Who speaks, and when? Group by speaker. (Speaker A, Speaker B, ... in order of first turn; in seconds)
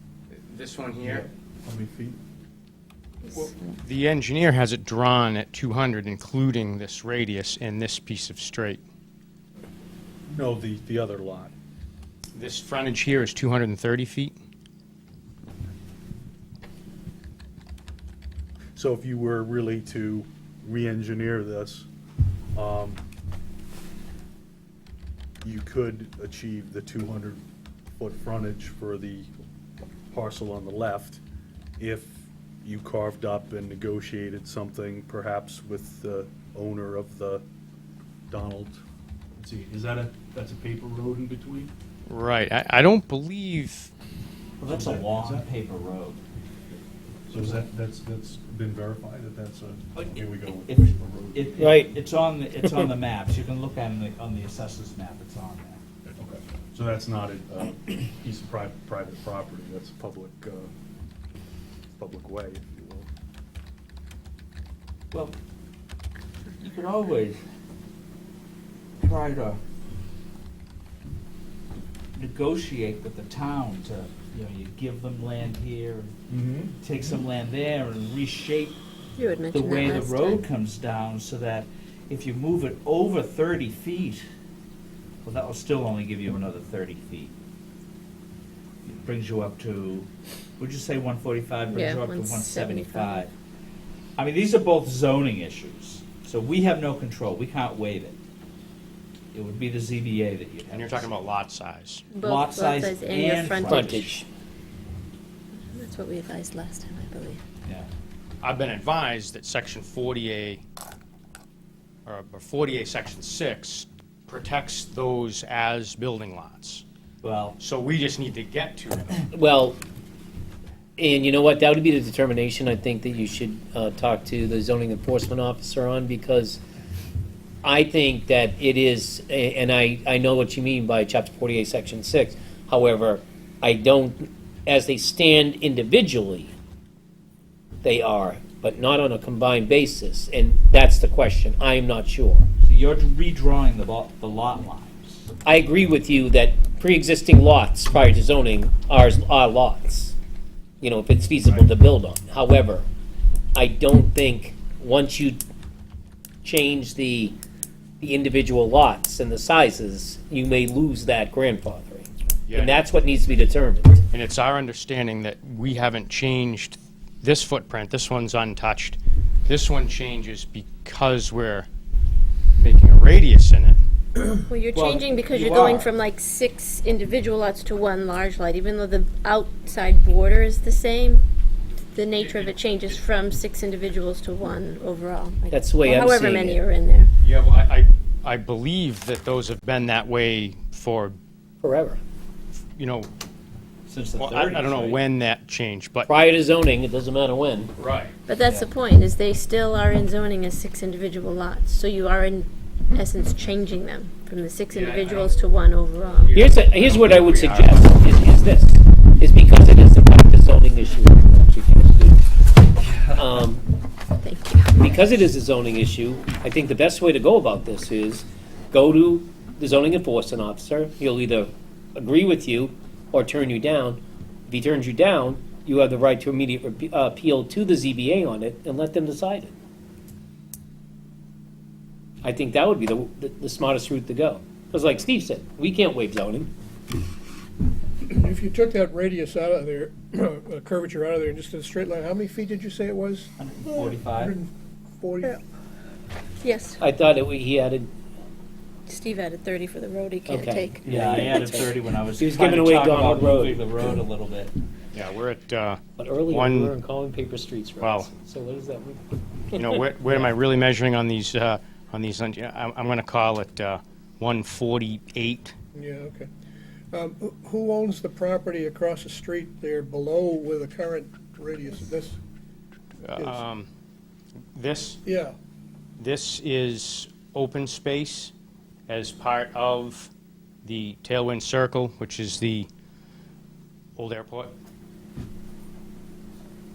Speaker A: 0.3-1.2, 3.3-8.8, 12.3-14.3, 42.1-43.9, 100.7-102.1, 108.4-110.6, 112.0-116.8, 117.6-119.3, 162.5-162.8, 164.1-171.7, 172.6-173.8, 182.1-183.0, 187.2-191.2, 192.8-193.1, 194.2-196.1, 197.8-198.1, 204.7-205.5, 206.1-207.8, 254.9-256.7, 257.8-258.1, 259.5-265.5, 273.1-273.7, 274.5-275.0, 276.0-278.3, 278.9-280.1, 280.6-282.7, 284.0-284.5
Speaker B: 1.0-2.2, 10.3-11.5, 18.8-21.9, 22.5-23.0, 25.4-27.4, 28.0-29.3, 30.1-31.2, 31.8-37.4, 38.3-38.8, 39.4-41.7, 44.6-45.5, 47.3-51.7, 56.2-60.7, 62.0-63.1, 76.3-76.7
Speaker C: 44.6-46.2, 49.9-55.8, 66.6-67.4, 69.0-69.6, 72.2-76.1, 76.8-78.8, 79.5-84.2, 85.2-87.3, 88.8-90.1, 90.6-93.3, 94.2-98.2, 99.3-101.1, 102.2-104.2, 117.2-117.6, 142.6-145.3, 174.7-175.9, 193.9-195.0, 198.4-198.7, 212.8-213.3, 243.4-244.3, 250.8-254.5
Speaker D: 51.6-51.9, 52.6-52.9, 103.6-104.2, 119.3-119.8, 121.0-126.6, 127.6-136.5, 137.8-142.5, 145.4-150.2, 150.8-152.8, 153.5-155.4, 156.4-157.4, 158.0-164.1, 185.5-186.6, 191.6-192.0, 196.1-197.7, 206.3-212.2, 213.1-213.6, 214.7-229.5, 232.2-236.5, 246.8-247.9, 250.2-253.9, 256.0-260.2
Speaker E: 79.2-80.4, 91.7-93.2, 102.1-103.8, 105.7-107.4, 174.5-181.2, 181.9-187.1, 198.3-206.4, 214.2-214.7, 246.4-246.8, 248.9-250.8
Speaker F: 238.1-245.4, 265.7-266.3, 266.9-272.1, 273.2-273.4, 275.0-275.3